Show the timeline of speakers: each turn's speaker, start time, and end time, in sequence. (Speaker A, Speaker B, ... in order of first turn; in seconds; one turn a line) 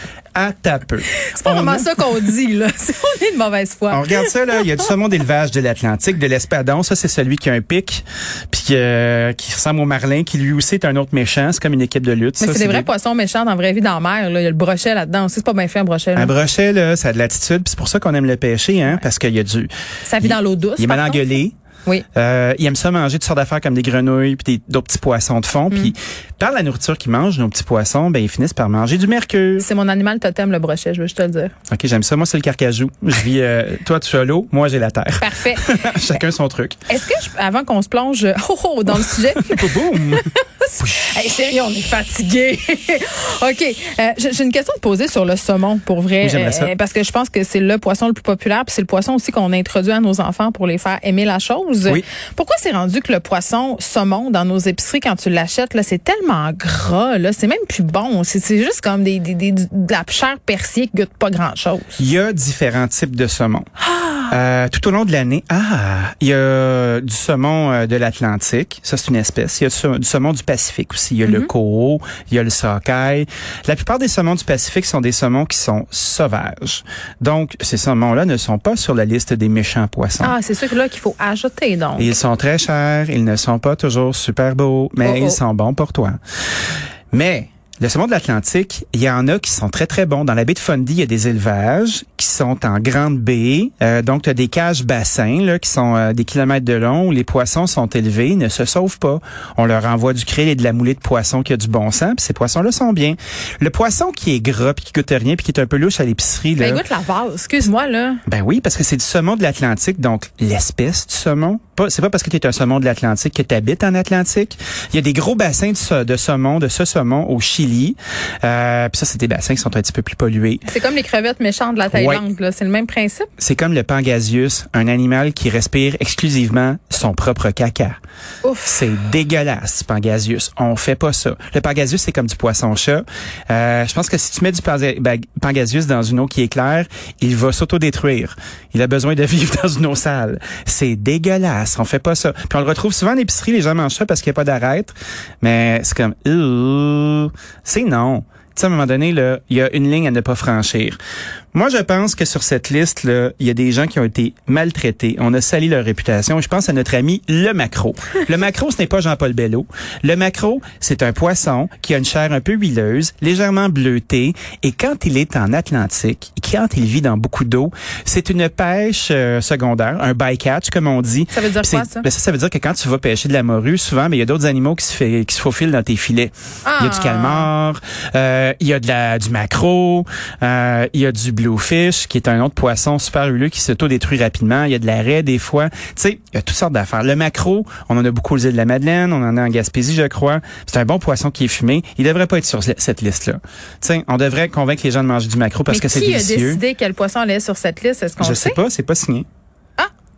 Speaker A: 0.3-2.0
Speaker B: 1.3-4.7
Speaker A: 3.9-12.9
Speaker B: 12.4-16.3
Speaker A: 16.1-21.5
Speaker B: 20.0-22.1
Speaker A: 22.1-29.7
Speaker B: 29.6-31.5
Speaker A: 31.7-36.8
Speaker B: 35.2-36.2
Speaker B: 36.9-62.0
Speaker A: 39.4-40.3
Speaker A: 46.2-46.7
Speaker A: 62.0-63.7
Speaker B: 63.9-64.3
Speaker A: 64.3-80.3
Speaker B: 71.2-71.5
Speaker B: 80.2-82.2
Speaker A: 82.0-86.2
Speaker B: 85.0-85.4
Speaker A: 87.1-106.8
Speaker B: 106.6-108.2
Speaker A: 108.3-120.6
Speaker B: 120.7-123.3
Speaker A: 121.9-122.2
Speaker A: 123.4-128.0
Speaker B: 128.4-128.8
Speaker A: 128.7-151.0
Speaker A: 151.5-196.6
Speaker B: 171.3-172.1
Speaker B: 176.6-177.5
Speaker B: 195.7-198.6
Speaker A: 198.2-199.2